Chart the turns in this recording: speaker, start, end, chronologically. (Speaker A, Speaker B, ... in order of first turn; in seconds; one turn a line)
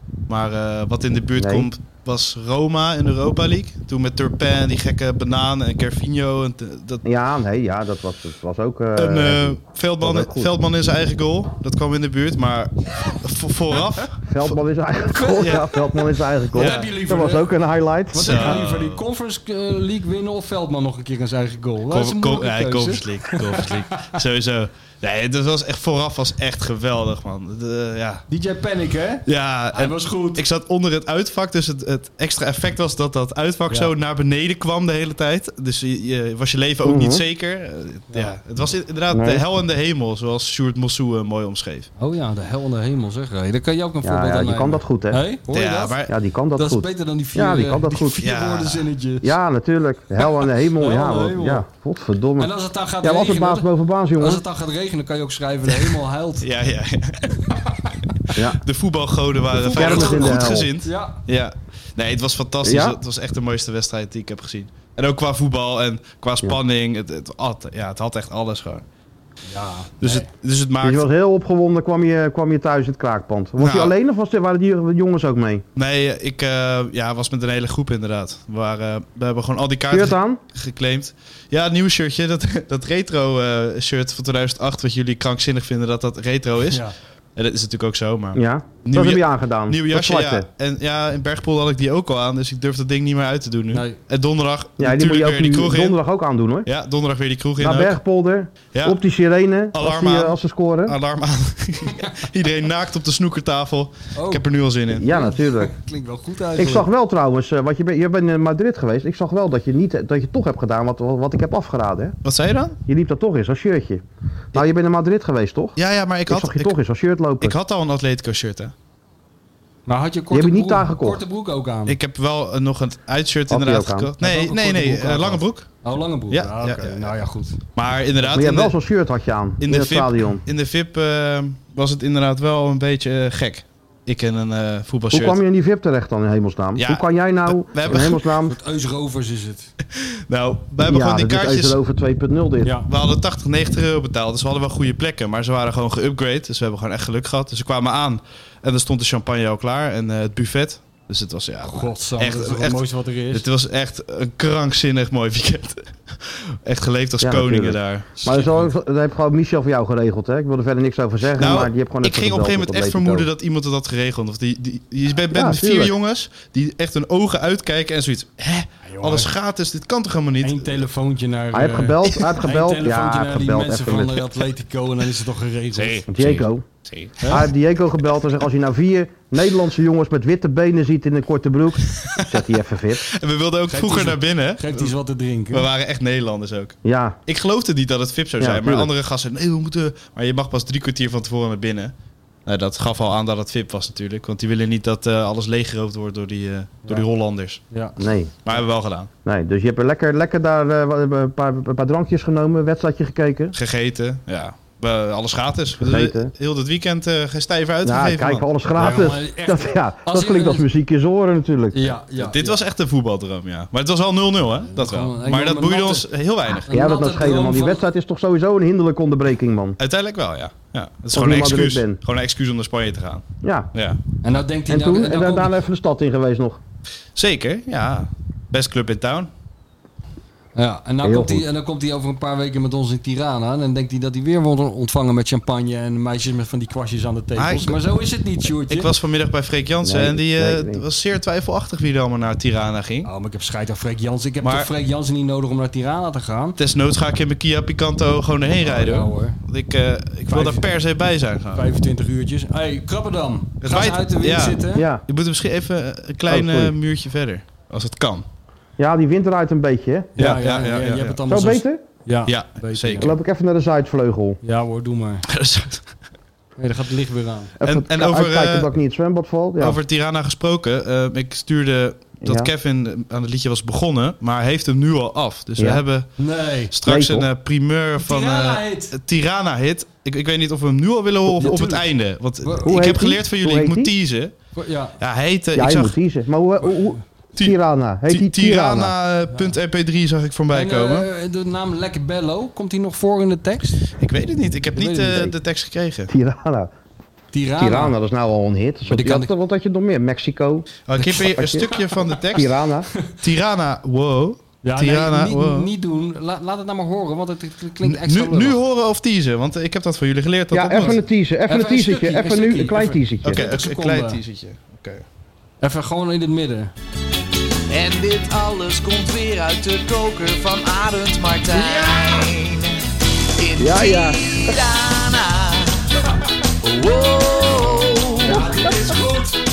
Speaker A: 0.3-7.0
Speaker B: 1.4-1.7
Speaker B: 7.0-10.5
Speaker A: 9.0-14.3
Speaker B: 14.2-18.6
Speaker C: 15.1-15.7
Speaker A: 15.3-15.7
Speaker C: 16.5-17.5
Speaker A: 16.5-16.8
Speaker C: 18.1-24.1
Speaker A: 18.2-19.0
Speaker A: 21.9-28.2
Speaker C: 28.3-30.4
Speaker A: 29.2-41.9
Speaker B: 36.8-37.2
Speaker C: 38.1-38.4
Speaker B: 39.1-39.4
Speaker C: 42.0-46.0
Speaker B: 44.0-45.2
Speaker A: 45.5-46.1
Speaker B: 46.0-48.3
Speaker C: 46.5-49.4
Speaker A: 48.2-48.9
Speaker B: 49.2-54.4
Speaker C: 50.7-51.6
Speaker C: 52.4-56.5
Speaker A: 56.4-57.6
Speaker A: 58.3-68.8
Speaker B: 58.3-58.6
Speaker C: 59.5-61.2
Speaker B: 59.7-60.7
Speaker B: 62.6-63.0
Speaker C: 69.5-70.3
Speaker A: 70.0-71.0
Speaker B: 70.8-75.7
Speaker A: 73.6-73.9
Speaker A: 75.8-86.8
Speaker B: 79.9-80.4
Speaker C: 86.7-87.0
Speaker A: 87.3-96.0
Speaker B: 88.3-90.5
Speaker C: 93.7-94.0
Speaker B: 94.8-96.7
Speaker A: 96.7-98.0
Speaker B: 97.6-101.0
Speaker A: 99.7-105.1
Speaker C: 104.1-104.5
Speaker B: 104.9-105.7
Speaker C: 105.0-106.9
Speaker B: 106.5-112.2
Speaker A: 112.2-112.8
Speaker B: 112.8-117.5
Speaker A: 115.8-116.7
Speaker A: 117.4-118.7
Speaker C: 119.9-122.0
Speaker B: 120.3-121.2
Speaker A: 121.9-125.7
Speaker B: 123.5-124.2
Speaker C: 124.2-127.6
Speaker A: 126.3-127.1
Speaker A: 127.7-128.7
Speaker B: 128.2-130.4
Speaker A: 129.6-135.4
Speaker B: 135.1-138.6
Speaker A: 136.8-138.2
Speaker C: 137.9-139.7
Speaker A: 140.0-141.8
Speaker B: 140.8-142.8
Speaker C: 142.6-142.9
Speaker A: 142.9-158.1
Speaker C: 151.6-153.4
Speaker B: 157.2-163.3
Speaker C: 158.2-158.7
Speaker A: 161.4-170.8
Speaker B: 165.3-165.9
Speaker C: 168.8-169.3
Speaker C: 170.4-176.0
Speaker B: 171.5-174.3
Speaker A: 175.7-177.4
Speaker B: 176.1-176.7
Speaker C: 177.2-177.5
Speaker B: 177.3-183.0
Speaker A: 181.9-182.3
Speaker A: 183.1-184.9
Speaker C: 183.7-185.7
Speaker A: 185.5-191.9
Speaker B: 186.8-187.2
Speaker B: 188.4-188.9
Speaker A: 192.4-197.6
Speaker C: 197.7-198.0
Speaker B: 198.0-198.4
Speaker A: 198.4-199.1
Speaker B: 199.2-203.6
Speaker A: 203.5-208.4
Speaker B: 205.8-206.3
Speaker B: 207.8-211.9
Speaker C: 208.8-210.7
Speaker C: 211.7-212.6
Speaker A: 212.2-216.7
Speaker C: 214.7-217.8
Speaker B: 216.7-219.8
Speaker A: 219.8-224.0
Speaker B: 221.1-222.0
Speaker B: 223.4-223.7
Speaker C: 224.2-225.5
Speaker B: 224.7-226.6
Speaker A: 227.1-229.3
Speaker C: 230.5-238.9
Speaker B: 231.0-231.5
Speaker A: 237.3-237.8
Speaker A: 238.7-243.1
Speaker B: 239.8-240.8
Speaker C: 243.0-246.6
Speaker A: 244.4-244.7
Speaker A: 246.6-251.7
Speaker C: 248.6-249.4
Speaker C: 250.3-250.7
Speaker C: 251.5-254.9
Speaker A: 253.6-258.2
Speaker B: 254.7-255.0
Speaker B: 256.3-256.8
Speaker B: 258.8-260.1
Speaker C: 260.1-263.1
Speaker A: 260.2-261.2
Speaker B: 261.3-261.8
Speaker A: 262.3-263.1
Speaker B: 263.0-264.4
Speaker C: 264.4-265.2
Speaker A: 265.3-265.9
Speaker C: 266.6-267.6
Speaker B: 267.6-269.8
Speaker A: 267.6-268.7
Speaker A: 269.6-276.1
Speaker B: 272.2-272.5
Speaker B: 275.6-275.8
Speaker C: 276.2-276.7
Speaker A: 276.7-284.4
Speaker B: 276.8-277.3
Speaker C: 278.0-278.9
Speaker C: 281.3-281.9
Speaker C: 282.4-282.7
Speaker B: 282.6-283.9
Speaker C: 284.5-285.0
Speaker A: 285.0-285.9
Speaker B: 285.5-288.9
Speaker C: 286.6-286.9
Speaker A: 287.4-291.1
Speaker C: 290.5-293.9
Speaker A: 293.9-296.1
Speaker C: 294.7-295.3
Speaker B: 296.1-296.7
Speaker C: 297.3-297.9
Speaker B: 297.6-302.9
Speaker C: 298.8-299.3
Speaker A: 300.9-302.5
Speaker C: 301.7-302.1
Speaker A: 303.2-305.7
Speaker C: 304.6-308.6
Speaker A: 307.8-311.0
Speaker B: 310.5-313.4
Speaker C: 311.5-314.2
Speaker A: 313.2-315.0
Speaker C: 315.6-316.7
Speaker D: 317.7-322.8
Speaker C: 321.6-321.9
Speaker D: 323.4-325.9
Speaker B: 323.6-324.6
Speaker D: 326.6-328.6
Speaker C: 328.2-329.4